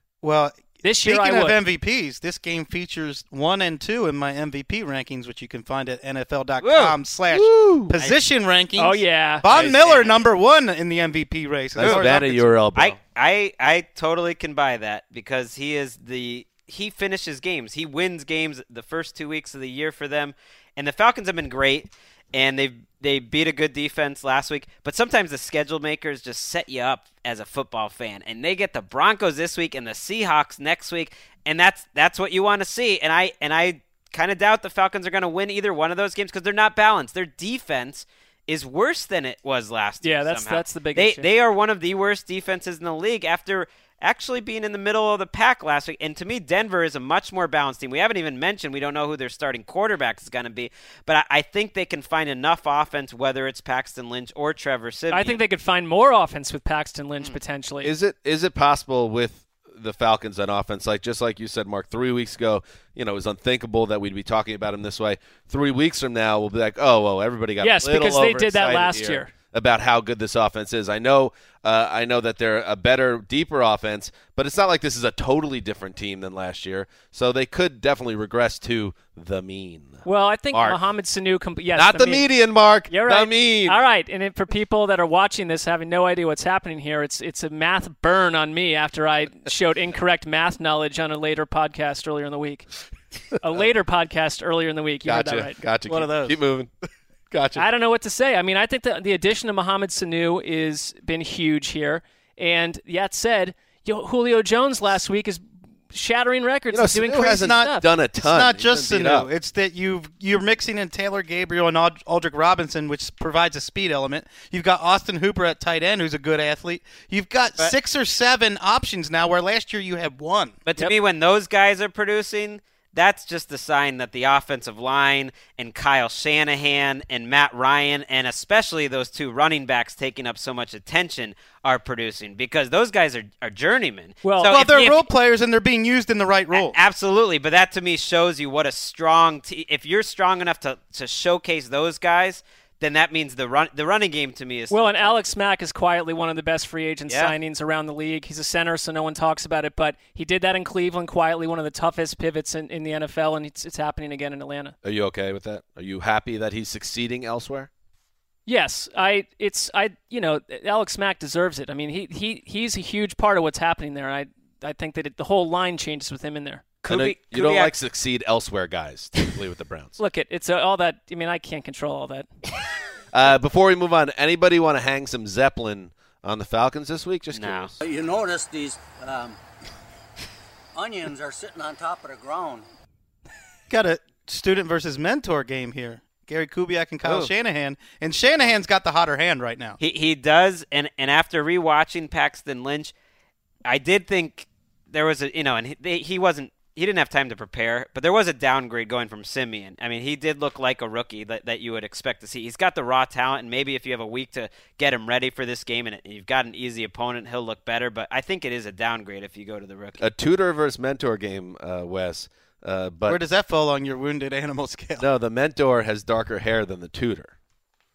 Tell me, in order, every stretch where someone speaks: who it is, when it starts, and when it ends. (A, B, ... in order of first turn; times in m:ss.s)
0:00.2-0:12.5 A
0:00.8-0:01.6 B
0:06.6-0:07.0 C
0:07.3-0:08.0 D
0:08.8-0:09.5 B
0:09.4-0:10.2 C
0:11.7-0:13.0 D
0:11.8-0:12.1 C
0:12.8-0:55.4 C
0:40.0-0:41.3 B
0:55.1-0:57.9 B
0:57.8-1:20.8 D
1:07.6-1:09.3 B
1:20.0-1:22.2 B
1:21.7-1:23.8 D
1:22.9-1:32.7 B
1:33.4-1:35.6 B
1:35.0-1:36.7 D
1:35.8-1:36.4 A
1:37.3-1:37.7 D
1:37.6-1:47.9 B
1:46.7-1:49.3 D
1:47.1-2:00.6 A
2:00.7-2:15.1 C
2:14.2-2:14.6 B
2:14.5-2:16.8 A
2:16.5-2:25.2 C
2:24.7-2:34.8 B
2:27.1-2:27.3 C
2:34.8-2:37.7 D
2:38.5-2:46.8 B
2:46.8-2:47.7 C
2:46.9-2:50.0 D
2:50.0-2:52.3 B
2:53.1-2:57.7 D
2:57.3-2:57.7 C
2:57.8-2:59.4 E
3:00.7-3:02.6 E
3:03.7-3:09.8 A
3:07.0-3:07.3 C
3:09.8-3:12.9 C
3:13.6-3:30.0 C
3:30.0-3:33.2 D
3:33.0-3:35.1 A
3:35.0-3:37.3 D